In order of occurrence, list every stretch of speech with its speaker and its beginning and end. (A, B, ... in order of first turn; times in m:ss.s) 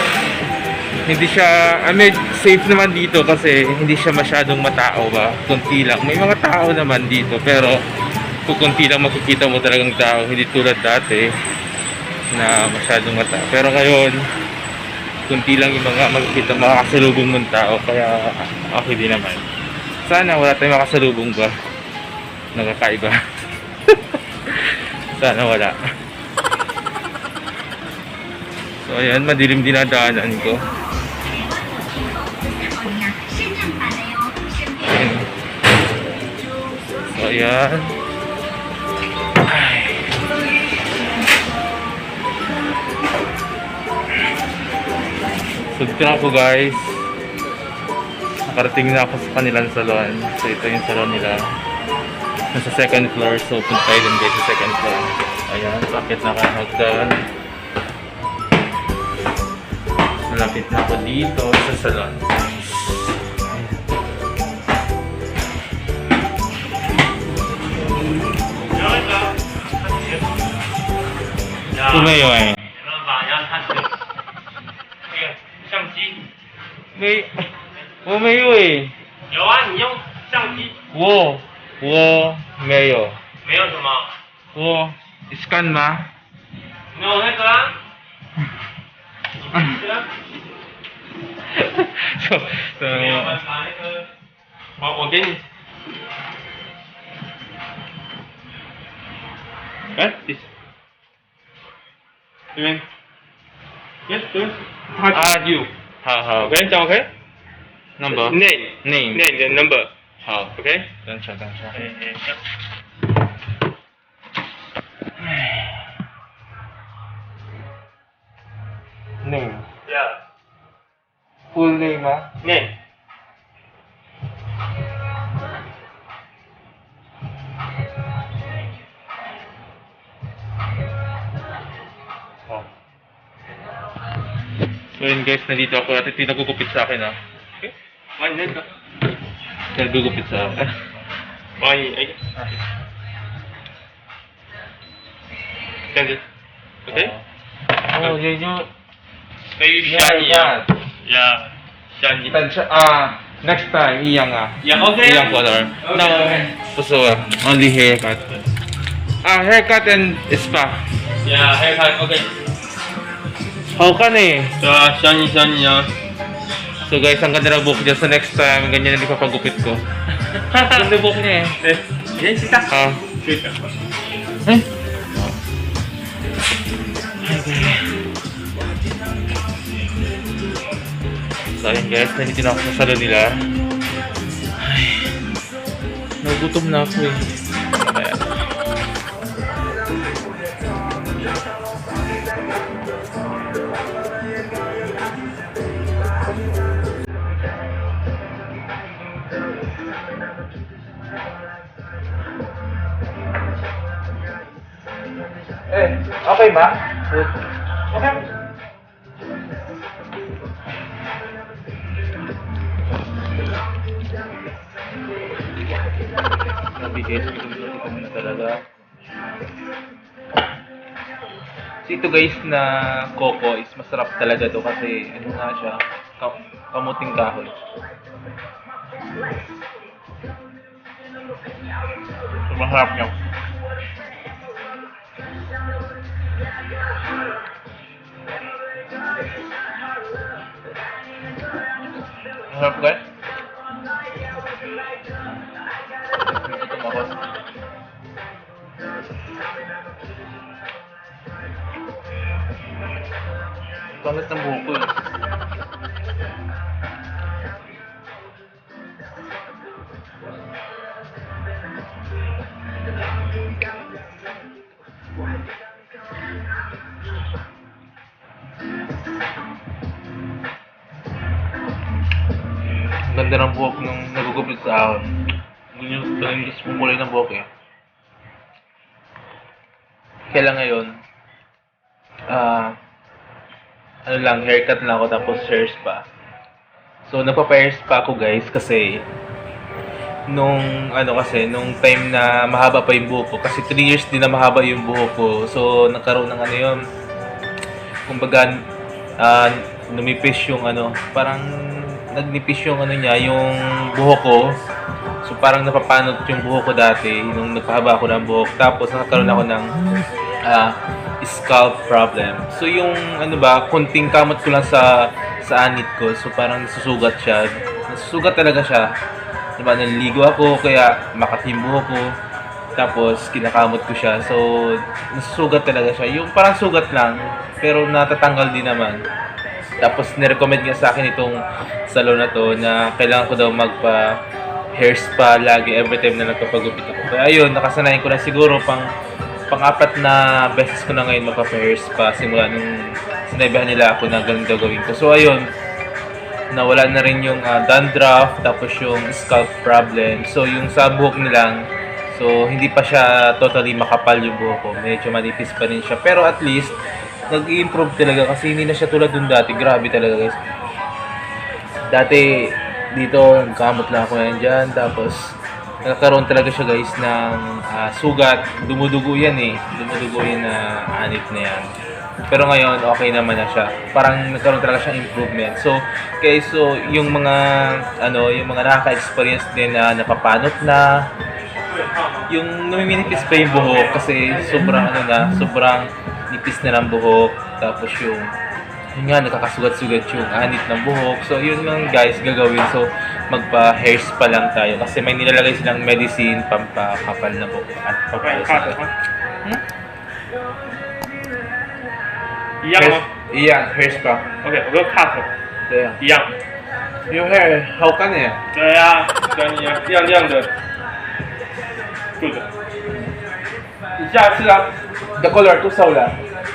0:01.0-0:07.8 A
0:08.4-0:11.3 A
0:12.3-0:14.2 A
0:15.3-0:19.4 A
0:20.0-0:21.5 A
0:22.5-0:23.1 A
0:24.5-0:25.7 A
0:28.8-0:30.6 A
0:34.7-0:35.3 A
0:37.1-0:37.9 A
0:39.5-0:40.1 A
0:45.7-0:47.1 A
0:48.5-0:51.4 A
0:52.5-0:57.2 A
1:00.3-1:02.2 A
1:08.7-1:10.2 B
1:11.7-1:12.2 B
1:11.9-1:12.6 A
1:12.7-1:13.9 B
1:15.1-1:16.2 B
1:17.0-1:17.5 A
1:18.0-1:18.9 A
1:19.3-1:20.7 B
1:20.9-1:23.2 A
1:23.4-1:24.1 B
1:24.5-1:26.1 A
1:26.9-1:27.8 B
1:29.4-1:30.1 B
1:31.5-1:33.4 A
1:32.8-1:34.1 B
1:34.8-1:35.4 B
1:39.9-1:40.4 B
1:42.6-1:42.8 B
1:44.1-1:45.3 B
1:45.1-1:46.5 A
1:46.4-1:47.1 B
1:48.0-1:49.2 A
1:48.1-1:49.9 B
1:50.2-1:50.5 A
1:50.6-1:50.9 B
1:51.0-1:51.8 A
1:51.7-1:52.4 B
1:59.2-1:59.6 A
1:59.9-2:00.2 B
2:01.5-2:02.3 A
2:02.4-2:02.7 B
2:14.9-2:17.2 A
2:17.6-2:18.6 B
2:19.7-2:20.7 A
2:21.6-2:22.2 B
2:25.9-2:26.2 B
2:26.9-2:27.1 B
2:26.9-2:27.2 A
2:27.9-2:28.7 A
2:29.6-2:32.4 B
2:29.8-2:30.7 A
2:32.3-2:38.3 A
2:34.6-2:36.5 B
2:39.2-2:40.8 A
2:41.2-2:42.3 B
2:43.8-2:44.5 A
2:44.6-2:45.9 B
2:46.8-2:49.8 A
2:50.5-2:50.9 B
2:50.7-2:51.6 A
2:51.6-2:53.6 B
2:52.7-2:53.0 A
2:57.2-2:57.8 A
3:01.6-3:03.4 A
3:06.2-3:08.2 C
3:25.7-3:27.3 C
3:36.7-3:38.6 C
3:41.8-3:47.6 C
3:52.5-3:53.1 C
4:02.5-4:03.0 C
4:06.2-4:07.2 C
4:14.0-4:15.0 C
4:32.9-4:35.2 C
4:35.7-4:37.5 C
4:40.3-4:41.0 C
4:42.3-4:42.8 C
4:44.1-4:46.0 C
4:47.1-4:49.0 C
4:50.3-4:56.8 C
4:58.1-4:58.6 C
4:59.2-5:04.5 C
5:05.2-5:09.7 C
5:10.4-5:18.9 C
5:19.6-5:22.1 C
5:22.8-5:29.0 C
5:29.8-5:34.1 C
5:34.8-5:38.8 C
5:39.5-5:45.4 C
5:46.5-5:51.6 C
5:52.1-5:56.8 C
5:57.3-6:00.4 C
6:01.9-6:11.7 C
6:12.3-6:20.9 C
6:21.7-6:22.2 B
6:22.3-6:28.3 C
6:23.1-6:24.8 B
6:28.9-6:38.8 C
6:38.2-6:38.9 B
6:42.6-6:43.0 B
6:42.8-6:44.3 C
6:44.4-6:45.3 B
6:45.7-6:46.0 C
6:46.0-6:46.3 B
6:47.1-6:48.4 C
6:48.5-6:50.5 B
6:52.2-6:52.5 B
6:54.0-6:54.7 B
6:55.2-6:56.2 C